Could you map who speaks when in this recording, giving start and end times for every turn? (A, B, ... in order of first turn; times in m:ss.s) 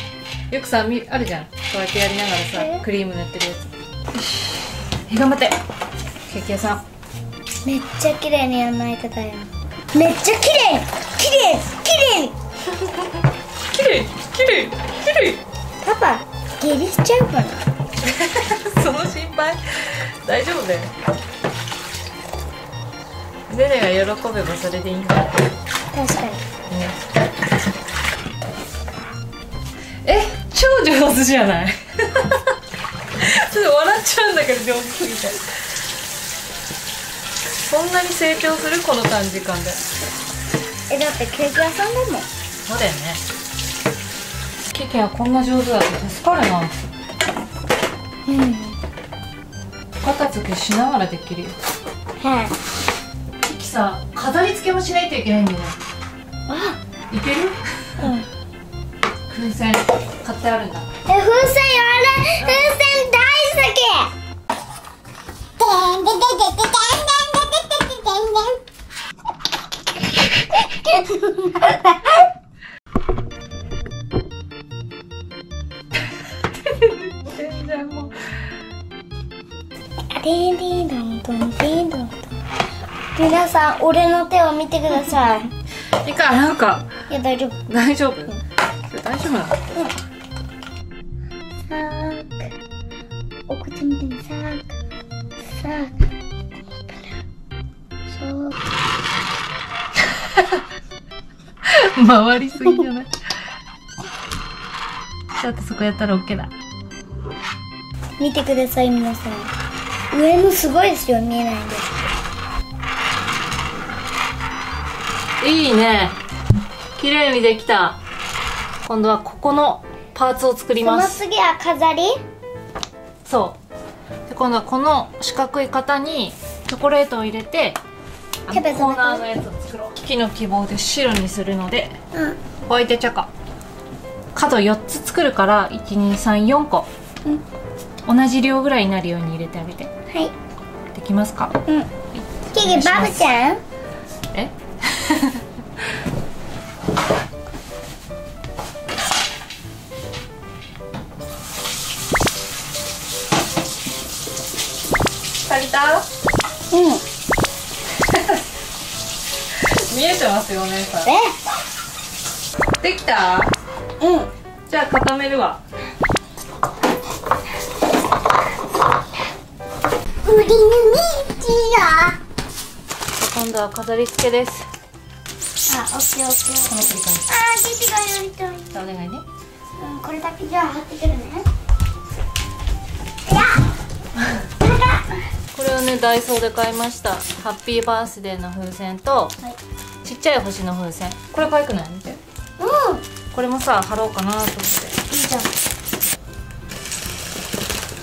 0:00.5-0:05.6 A
0:02.5-0:02.8 B
0:06.3-0:06.8 A
0:07.6-0:12.3 B
0:12.8-0:13.2 A
0:13.7-0:15.4 A
0:15.8-0:17.6 B
0:18.0-0:20.9 A
0:23.5-0:25.3 A
0:25.9-0:26.4 B
0:26.7-0:27.0 A
0:30.0-0:32.6 A
0:33.2-0:35.4 A
0:37.7-0:39.8 A
0:40.9-0:42.3 B
0:42.6-0:43.2 A
0:44.7-0:46.9 A
0:48.3-0:48.8 B
0:50.0-0:51.6 A
0:52.2-0:52.5 B
0:53.4-0:55.8 A
0:56.5-0:56.8 B
0:57.1-0:58.1 A
0:58.0-0:58.3 B
0:59.3-1:00.9 A
1:01.1-1:04.1 B
1:02.4-1:02.7 A
1:05.6-1:08.6 B
1:10.6-1:12.2 B
1:16.6-1:18.3 A
1:20.2-1:22.3 B
1:23.2-1:25.5 B
1:26.0-1:26.9 A
1:27.1-1:27.6 B
1:27.7-1:29.6 A
1:31.7-1:32.4 B
1:33.5-1:34.7 B
1:35.6-1:35.9 B
1:38.1-1:38.6 B
1:40.2-1:40.6 A
1:41.7-1:43.1 A
1:45.4-1:46.5 A
1:48.2-1:49.5 B
1:50.1-1:52.1 B
1:55.4-1:56.2 A
1:57.0-1:58.0 A
1:58.9-2:01.2 A
2:00.8-2:02.2 B
2:03.3-2:03.6 A
2:04.3-2:07.8 A
2:08.5-2:12.0 A
2:08.5-2:09.2 B
2:12.7-2:13.3 A
2:14.4-2:16.9 A
2:18.0-2:19.9 A
2:20.9-2:21.6 A
2:22.1-2:23.3 A
2:22.5-2:23.6 B
2:24.3-2:25.4 A
2:35.5-2:36.0 A
2:36.7-2:37.0 B
2:37.9-2:38.4 A
2:39.6-2:41.1 A
2:41.0-2:41.4 B
2:42.8-2:43.5 A
2:44.0-2:44.3 B
2:44.7-2:45.6 A
2:50.2-2:52.2 B
2:53.2-2:54.7 A
2:55.7-2:58.7 B
2:56.7-2:57.3 A
2:58.7-2:59.2 A
2:59.8-3:01.5 B
3:03.3-3:03.6 B
3:04.6-3:05.0 B
3:05.5-3:09.4 A
3:10.0-3:12.2 A
3:12.6-3:13.0 B
3:13.3-3:15.0 A
3:15.1-3:15.5 B